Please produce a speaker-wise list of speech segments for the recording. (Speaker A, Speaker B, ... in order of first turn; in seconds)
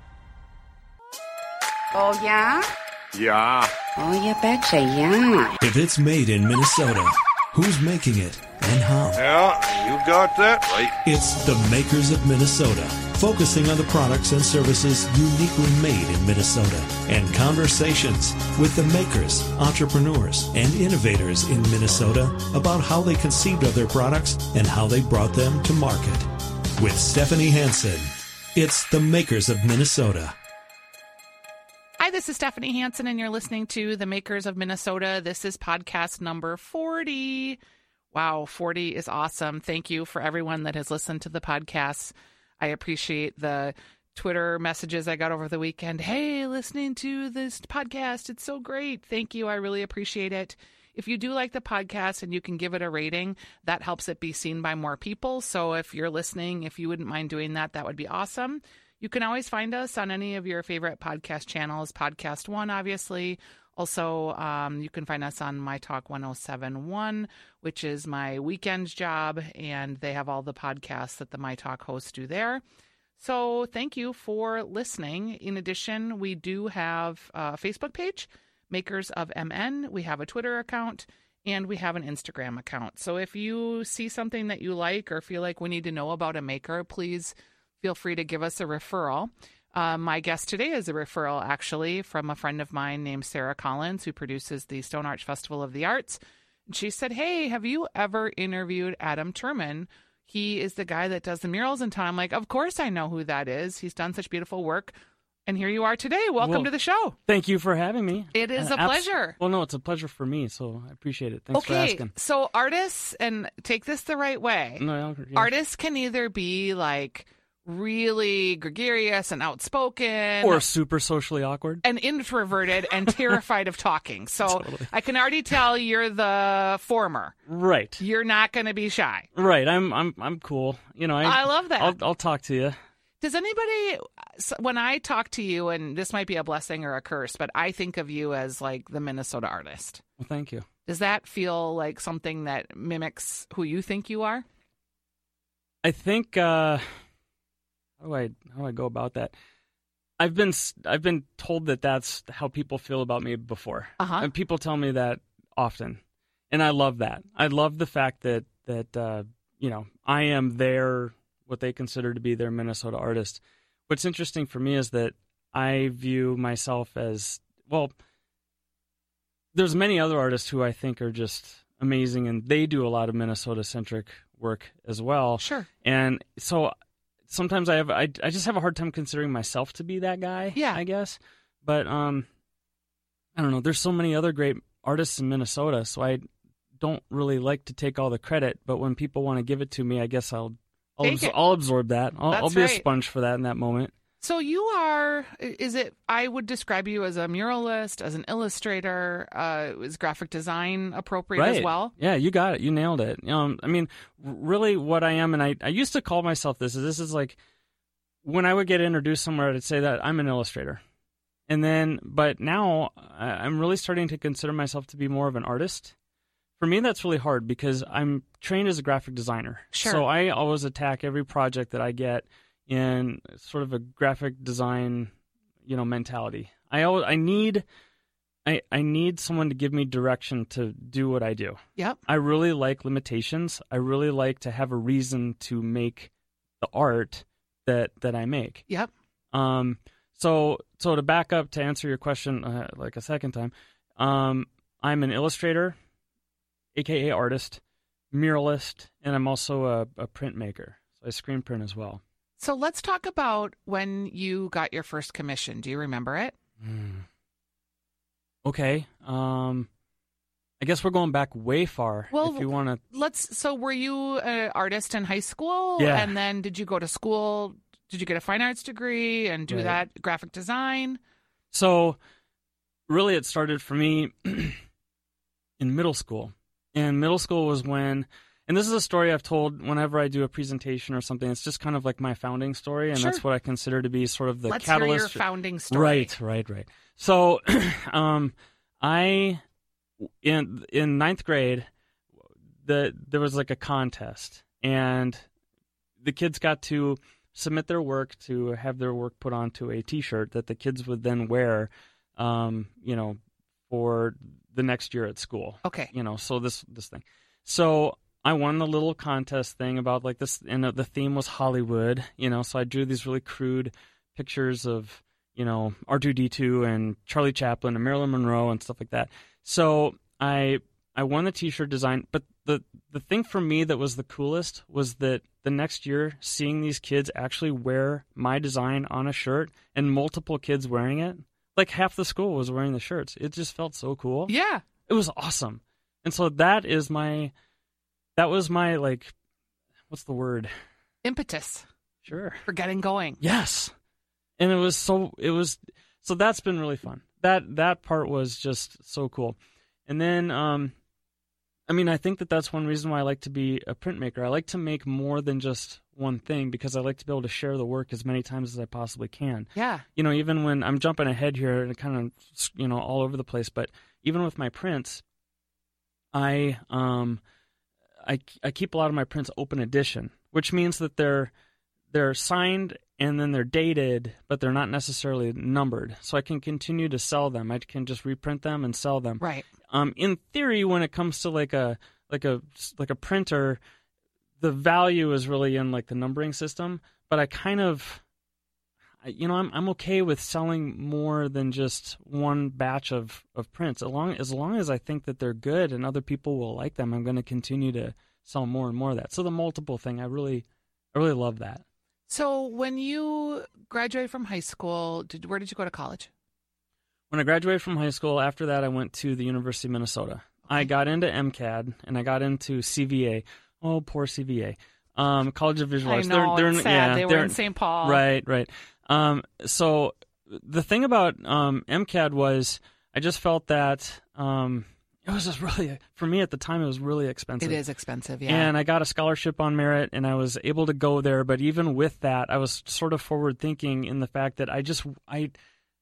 Speaker A: 1.9-2.6, 4.0-5.5
Speaker B: 3.1-3.7, 9.2-10.9
Speaker C: 5.6-9.4, 11.0-30.3
Speaker D: 32.0-37.6, 38.1-72.6, 73.2-104.9, 105.5-107.2, 108.3-109.4, 111.5-114.8, 115.3-120.6, 121.8-127.3, 128.0-129.3, 131.2-131.9, 133.2-140.0, 140.8-144.4, 154.0-154.3, 175.4-175.7, 180.5-180.8, 191.0-191.3, 192.3-192.8, 194.2-201.9, 219.7-220.0, 252.4-256.3, 262.1-271.0, 282.9-283.2, 284.5-286.1, 305.6-305.9, 334.3-334.6, 341.0-341.6, 342.4-343.2, 359.5-359.8, 379.2-379.5, 402.1-406.1, 415.8-418.0, 427.4-428.5
Speaker E: 106.4-106.7, 107.3-112.1, 114.8-115.5, 120.4-121.8, 124.4-124.9, 127.5-128.0, 129.3-132.8, 140.2-140.7, 145.8-147.0, 148.0-149.3, 150.2-167.9, 169.5-176.7, 177.3-182.3, 183.3-186.2, 186.8-193.9, 201.3-207.4, 208.2-210.8, 211.5-215.9, 216.6-225.1, 225.6-227.6, 228.4-238.6, 239.3-245.8, 246.7-247.6, 248.1-252.0, 256.6-257.1, 258.4-259.7, 260.6-262.8, 265.8-266.1, 269.5-269.8, 271.5-272.0, 272.9-274.6, 275.6-289.4, 290.0-291.7, 292.6-295.2, 296.0-334.3, 334.9-337.3, 338.1-339.1, 339.9-340.5, 342.0-342.4, 343.2-343.7, 344.4-350.7, 351.7-365.0, 366.1-367.2, 368.0-371.3, 371.9-383.6, 384.4-388.0, 389.0-401.6, 407.1-427.6, 428.3-435.3